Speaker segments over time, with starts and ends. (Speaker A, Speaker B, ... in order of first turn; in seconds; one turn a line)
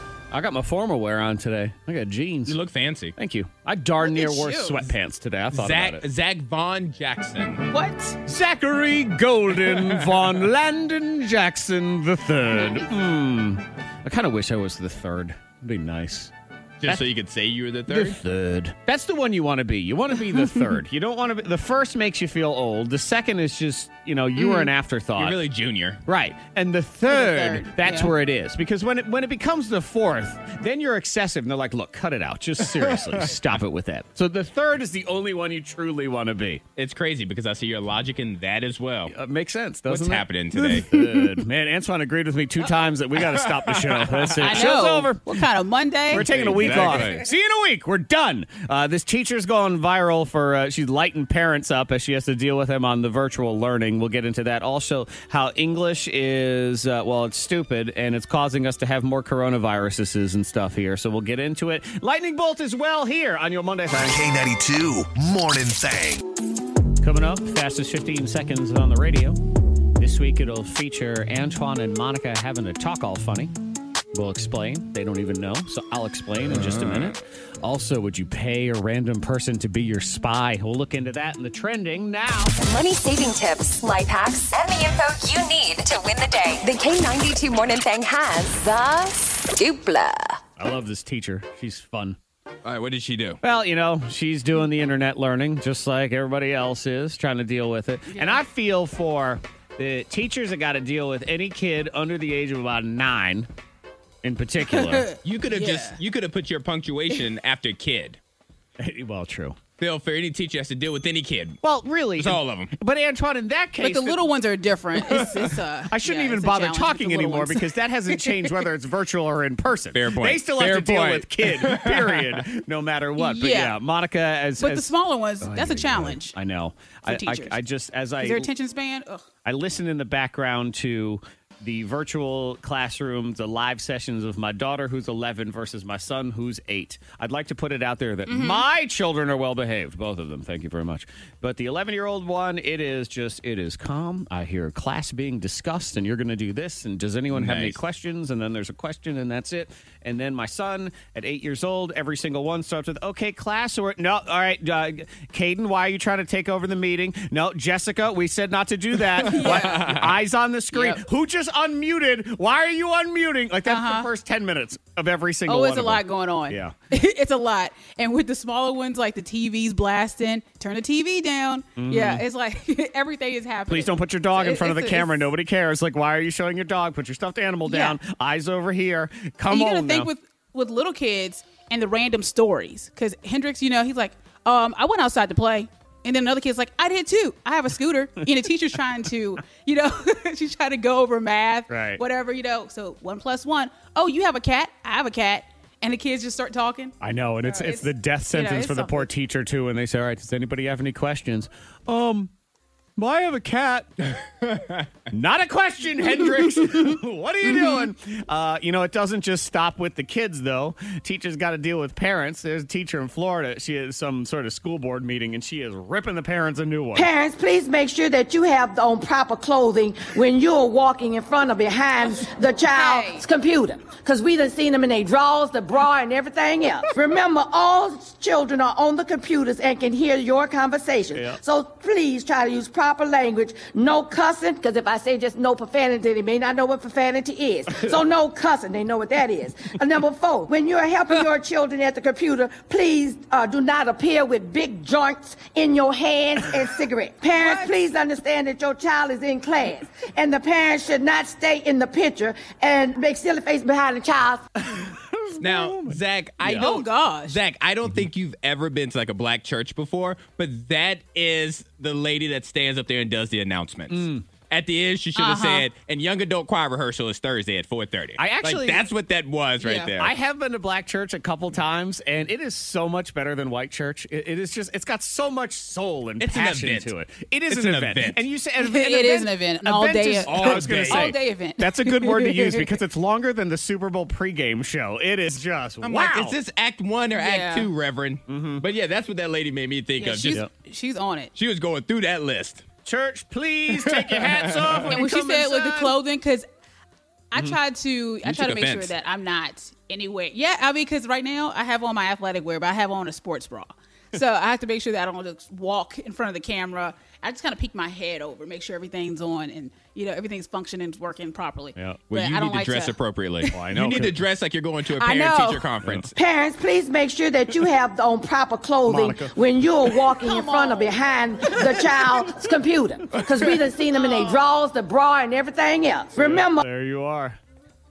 Speaker A: 0.3-2.6
Speaker B: 2.5-3.1
Speaker A: 3.1-6.0
Speaker C: 4.0-4.9
Speaker B: 5.5-7.7
Speaker C: 7.7-8.2
Speaker A: 8.2-16.3
Speaker B: 9.5-10.5
Speaker C: 12.5-12.9
Speaker B: 16.8-18.2
Speaker A: 17.9-25.4
Speaker C: 20.2-20.7
Speaker C: 24.4-24.7
Speaker B: 25.1-26.0
Speaker A: 26.1-36.6
Speaker C: 27.1-28.1
Speaker B: 32.6-33.4
Speaker B: 36.8-39.1
Speaker A: 39.1-45.4
Speaker B: 39.9-41.0
Speaker B: 43.1-44.6
Speaker C: 44.4-47.1
Speaker A: 46.1-64.2
Speaker B: 46.1-47.2
Speaker D: 64.0-66.2
Speaker A: 67.0-69.4
Speaker A: 70.0-73.5
Speaker A: 74.1-82.5
Speaker B: 76.5-77.2
Speaker E: 82.6-90.4
Speaker A: 90.6-92.2
Speaker B: 92.6-93.4
Speaker A: 93.4-103.5
Speaker C: 98.1-98.4
Speaker A: 104.2-105.1
Speaker C: 104.7-106.0
Speaker B: 105.2-108.2
Speaker A: 108.8-109.6
Speaker B: 109.8-111.6
Speaker A: 111.6-114.2
Speaker B: 112.2-112.7
Speaker C: 113.8-118.6
Speaker B: 115.0-115.4
Speaker A: 115.9-128.5
Speaker B: 119.9-122.5
Speaker C: 123.2-123.8
Speaker C: 124.6-126.3
Speaker C: 127.0-127.6
Speaker C: 128.2-129.2
Speaker A: 129.4-166.8
Speaker C: 138.3-138.7
Speaker B: 147.3-147.8
Speaker C: 159.2-160.0
Speaker B: 159.2-160.2
Speaker C: 160.7-161.0
Speaker C: 163.6-164.1
Speaker C: 165.5-175.3
Speaker A: 171.8-172.2
Speaker A: 173.7-180.1
Speaker C: 177.7-178.0
Speaker C: 179.5-199.1
Speaker A: 191.7-192.0
Speaker A: 197.0-202.3
Speaker A: 203.0-203.9
Speaker B: 204.2-204.9
Speaker A: 205.1-217.1
Speaker C: 207.5-207.9
Speaker F: 216.9-254.4
Speaker C: 222.2-223.2
Speaker A: 231.1-231.4
Speaker C: 247.4-247.7
Speaker A: 254.6-256.8
Speaker B: 255.4-270.1
Speaker C: 256.4-257.4
Speaker A: 263.9-264.2
Speaker C: 265.1-265.6
Speaker A: 268.2-268.9
Speaker C: 269.6-269.9
Speaker A: 269.9-286.4
Speaker B: 276.2-276.9
Speaker B: 277.5-278.2
Speaker C: 278.6-282.8
Speaker B: 280.2-281.1
Speaker B: 285.8-290.4
Speaker C: 287.1-287.7
Speaker A: 288.3-288.6
Speaker C: 290.0-291.3
Speaker B: 291.3-292.6
Speaker A: 292.8-296.0
Speaker B: 293.7-294.9
Speaker C: 294.9-296.5
Speaker C: 297.3-313.0
Speaker B: 298.2-298.9
Speaker A: 311.8-312.0
Speaker B: 312.1-316.1
Speaker A: 313.5-314.2
Speaker C: 314.9-315.7
Speaker F: 316.1-326.6
Speaker A: 318.9-319.3
Speaker C: 320.2-321.0
Speaker C: 321.5-322.0
Speaker C: 323.9-324.5
Speaker A: 326.1-327.4